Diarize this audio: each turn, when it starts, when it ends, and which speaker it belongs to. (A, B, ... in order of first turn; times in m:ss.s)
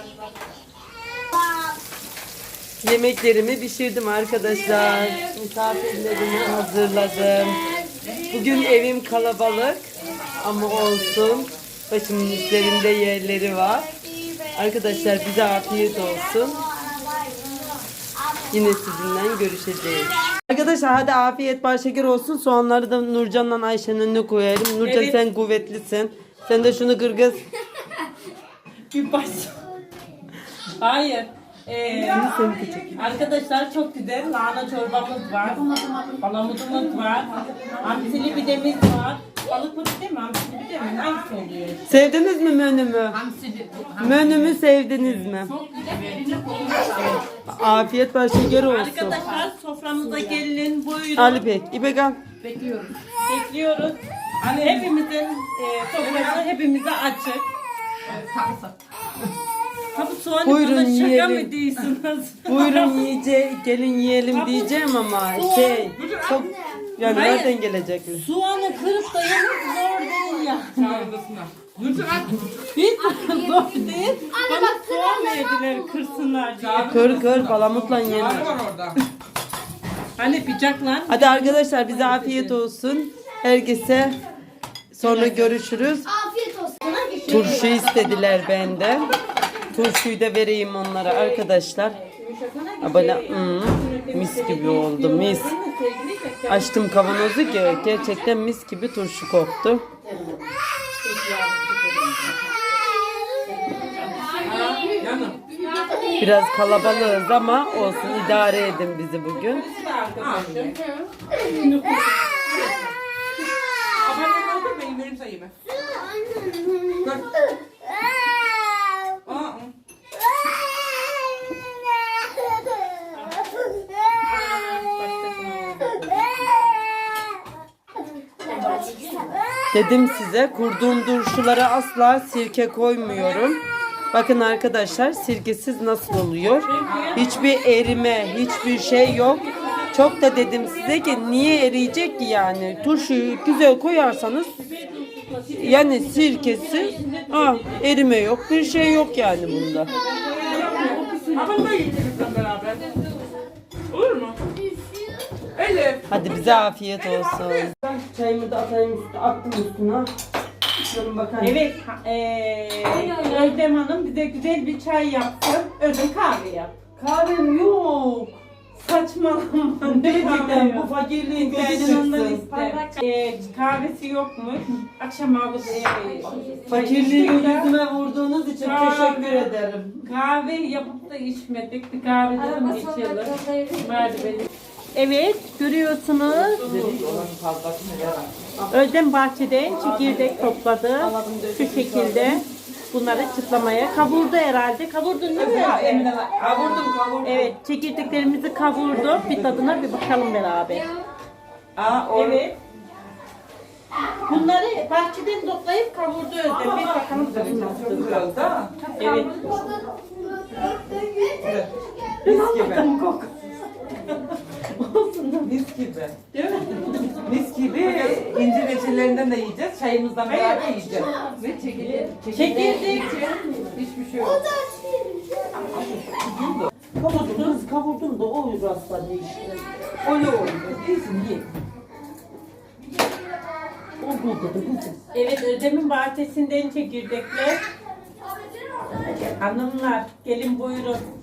0:02.8-0:07.8 A
0:08.0-0:08.7 B
0:08.3-0:16.6 A
0:10.1-0:11.6 B
0:15.3-0:17.7 C
0:18.5-0:27.4 A
0:24.8-0:25.2 D
0:28.9-0:29.6 D
0:30.8-0:32.3 D
0:31.8-0:33.3 B
0:32.1-0:33.1 A
0:33.0-0:41.9 D
0:37.3-0:38.5 B
0:41.9-0:43.2 A
0:43.1-0:44.5 E
0:44.0-0:45.5 A
0:45.4-0:47.2 E
0:47.0-0:47.2 D
0:47.2-0:49.2 A
0:48.5-0:51.5 D
0:49.1-0:49.5 E
0:50.0-0:50.4 E
0:51.2-0:52.2 A
0:52.4-0:53.0 E
0:53.3-0:54.0 D
0:54.4-0:54.9 B
0:54.6-0:57.4 D
0:56.0-0:56.4 B
0:58.1-0:58.7 B
0:59.9-1:03.2 D
1:00.4-1:01.5 A
1:02.5-1:08.3 A
1:04.3-1:05.9 D
1:05.8-1:06.5 B
1:07.0-1:07.4 B
1:07.1-1:07.6 D
1:08.1-1:11.1 D
1:10.6-1:12.6 B
1:12.7-1:17.0 D
1:13.2-1:13.8 C
1:16.6-1:19.0 B
1:16.9-1:18.6 A
1:20.2-1:22.6 D
1:21.1-1:24.2 A
1:24.9-1:26.1 A
1:25.0-1:25.7 D
1:26.2-1:27.3 C
1:26.9-1:27.8 E
1:27.1-1:28.0 D
1:27.3-1:29.1 A
1:29.7-1:32.0 A
1:31.0-1:38.1 D
1:32.8-1:35.5 A
1:36.5-1:39.9 A
1:40.0-1:40.5 D
1:41.0-1:42.4 D
1:43.4-1:44.9 D
1:44.2-1:45.0 C
1:44.4-1:45.5 B
1:44.6-1:46.2 E
1:45.5-1:47.0 D
1:45.9-1:46.3 C
1:46.2-1:49.7 A
1:47.7-1:48.8 B
1:47.7-1:48.8 D
1:49.3-1:50.8 D
1:49.4-1:50.8 B
1:51.4-1:52.6 D
1:52.5-1:52.9 B
1:54.0-1:55.6 B
1:56.9-1:57.4 B
1:59.2-1:59.8 B
2:03.1-2:03.4 D
2:04.2-2:06.4 D
2:08.4-2:09.4 D
2:09.7-2:24.5 A
2:13.1-2:13.4 D
2:16.6-2:17.4 D
2:16.9-2:17.4 B
2:18.9-2:21.8 D
2:22.8-2:23.3 D
2:24.5-2:31.7 D
2:25.5-2:29.9 A
2:30.2-2:31.2 C
2:30.3-2:33.0 B
2:33.0-2:33.3 C
2:33.9-2:34.4 B
2:35.6-2:36.7 B
2:36.1-2:40.1 A
2:37.0-2:37.7 D
2:40.8-2:41.6 A
2:41.4-2:46.8 D
2:42.8-2:43.6 C
2:47.0-2:48.4 A
2:48.7-2:57.7 D
2:49.8-2:52.5 A
2:52.5-2:52.9 C
2:55.8-2:56.8 C
2:56.2-2:56.9 B
2:56.7-3:00.1 A
2:58.6-3:06.7 D
3:02.4-3:04.5 C
3:06.3-3:08.5 B
3:06.6-3:07.2 A
3:08.6-3:08.9 A
3:08.7-3:20.9 D
3:09.6-3:12.4 A
3:15.4-3:17.6 B
3:18.9-3:19.9 B
3:20.8-3:21.0 C
3:21.8-3:22.5 B
3:22.1-3:22.6 D
3:24.3-3:28.3 D
3:26.5-3:29.0 B
3:27.4-3:28.1 A
3:29.0-3:29.4 D
3:30.8-3:32.9 B
3:32.2-3:33.3 A
3:32.6-3:33.1 D
3:34.0-3:35.5 D
3:35.4-3:36.2 B
3:36.3-3:38.2 D
3:37.2-3:42.9 B
3:41.0-3:44.6 E
3:41.0-3:41.4 C
3:42.2-3:43.2 D
3:42.4-3:43.8 A
3:44.7-3:45.0 C
3:45.5-3:46.7 B
3:47.0-3:50.7 A
3:47.0-3:47.6 D
3:50.4-3:51.5 B
3:54.0-3:55.0 A
3:55.1-3:57.6 D
3:59.1-4:01.1 D